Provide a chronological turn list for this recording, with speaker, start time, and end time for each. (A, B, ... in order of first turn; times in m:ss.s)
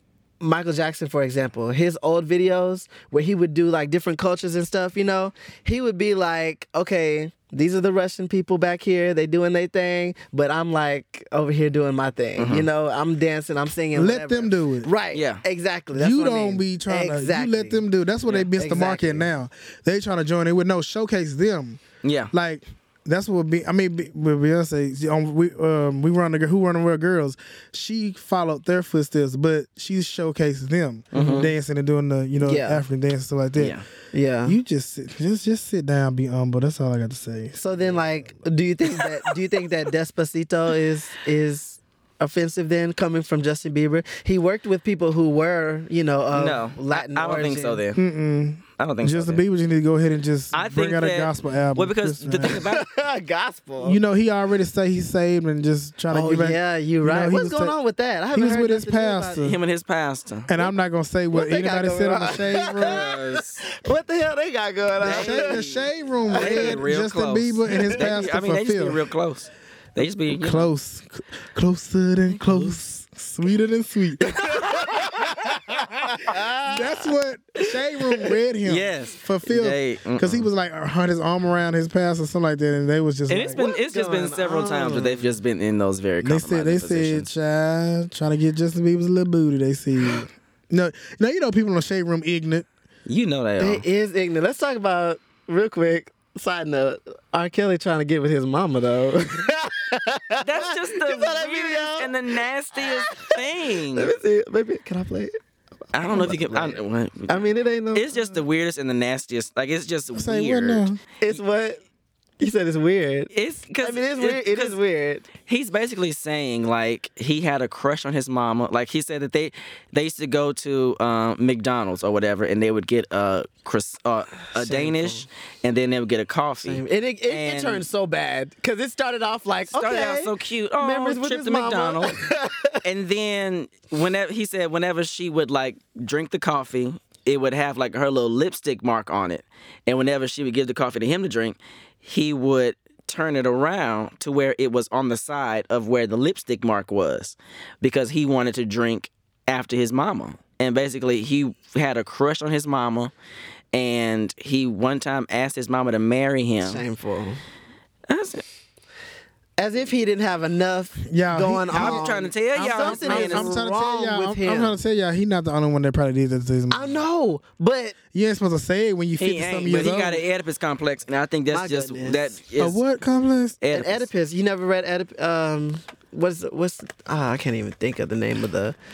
0:00.4-0:17.8 A
0:12.4-0:12.7 B
0:13.9-0:14.9 C
0:15.1-0:15.4 B
0:15.9-0:21.8 C
0:18.5-0:19.3 A
0:22.0-0:22.3 B
0:22.3-0:33.8 C
0:31.1-0:31.5 B
0:31.1-0:31.5 A
0:32.4-0:32.8 A
0:33.6-0:33.8 B
0:34.1-0:34.6 A
0:34.4-0:38.1 C
0:37.6-0:47.8 A
0:46.3-0:48.0 B
0:47.9-0:52.6 C
0:48.8-0:49.4 B
0:50.5-0:52.8 B
0:52.4-0:54.0 A
0:53.8-0:57.7 C
0:56.1-0:59.5 A
0:58.3-0:59.6 C
0:59.4-1:00.5 B
1:00.5-1:03.1 C
1:01.3-1:05.6 A
1:02.8-1:03.6 B
1:05.0-1:10.7 B
1:05.0-1:09.0 C
1:06.3-1:06.8 A
1:07.7-1:08.0 A
1:10.3-1:16.0 C
1:12.3-1:12.7 B
1:14.2-1:17.1 A
1:16.6-1:23.6 C
1:18.6-1:20.5 B
1:23.3-1:27.3 B
1:23.5-1:25.3 A
1:26.2-1:32.7 C
1:33.0-1:33.8 B
1:33.6-1:43.4 A
1:40.4-1:44.1 B
1:43.9-1:45.3 A
1:45.9-1:51.4 B
1:46.1-1:48.3 A
1:50.1-1:51.0 C
1:51.2-1:51.8 A
1:52.4-1:53.3 A
1:53.3-1:54.8 B
1:53.8-1:55.3 A
1:55.4-2:07.8 B
2:04.5-2:05.2 A
2:06.6-2:12.8 A
2:09.7-2:12.2 B
2:12.8-2:33.1 B
2:33.7-2:36.8 B
2:36.6-2:37.4 A
2:38.1-2:38.4 B
2:39.6-2:44.8 A
2:41.0-2:42.0 C
2:41.7-2:43.5 B
2:42.5-2:46.8 C
2:46.7-2:48.0 A
2:48.1-2:50.2 C
2:49.2-2:52.8 B
2:51.5-2:52.3 A
2:52.6-2:53.6 C
2:53.6-2:54.1 B
2:53.7-2:58.8 A